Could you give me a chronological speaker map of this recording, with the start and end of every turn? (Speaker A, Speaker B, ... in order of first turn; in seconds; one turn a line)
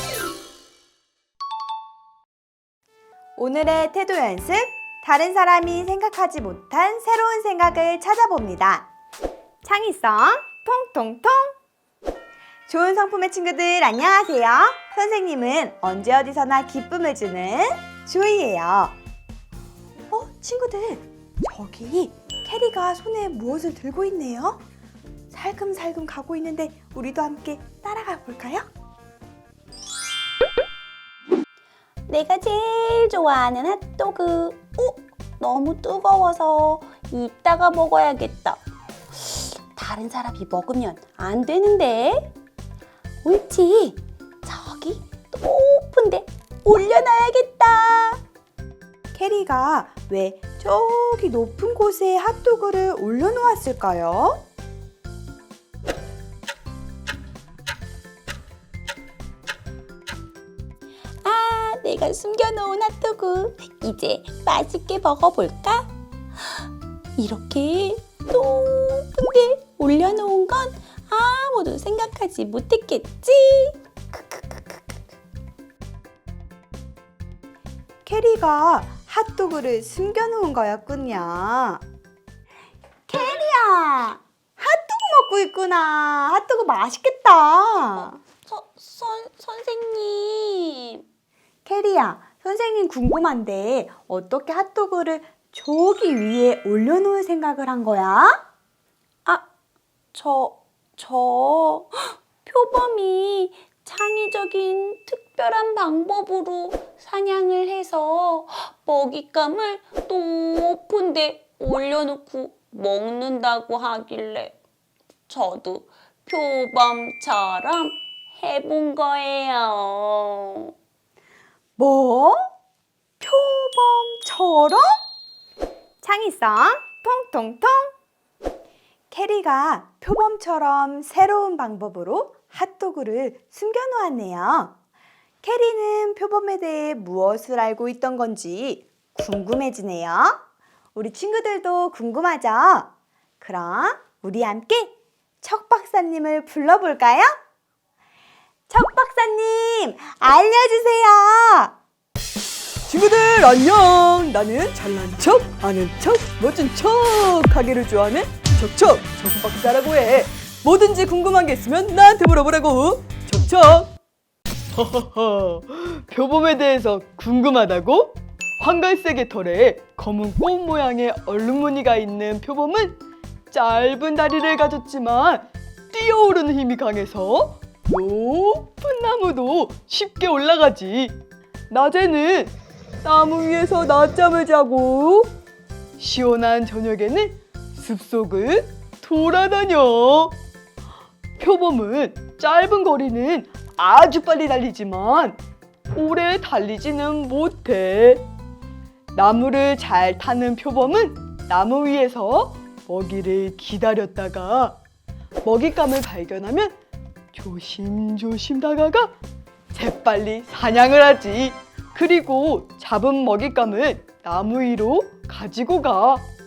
Speaker A: 3.4-8.9
Speaker A: 9.6-11.6
Speaker A: 12.7-18.9
Speaker A: 20.1-24.6
Speaker A: 25.3-28.7
Speaker B: 32.1-42.3
Speaker B: 43.2-48.2
Speaker A: 49.1-54.4
Speaker B: 61.2-65.9
Speaker B: 67.2-75.0
Speaker A: 78.0-81.8
Speaker A: 83.1-88.2
Speaker B: 88.3-91.0
Speaker A: 91.6-98.4
Speaker B: 100.1-114.5
Speaker B: 115.3-120.7
Speaker A: 121.8-122.5
Speaker A: 123.2-125.0
Speaker A: 126.0-127.9
Speaker A: 129.1-134.7
Speaker A: 135.4-140.4
Speaker A: 140.9-147.3
Speaker A: 148.7-151.7
Speaker C: 152.9-163.9
Speaker C: 164.7-173.0
Speaker C: 173.5-181.2
Speaker C: 181.7-185.3
Speaker C: 186.0-190.3
Speaker C: 191.4-195.4
Speaker C: 195.9-198.2
Speaker C: 199.1-204.8
Speaker C: 205.4-206.7
Speaker C: 207.3-209.1
Speaker C: 209.7-216.3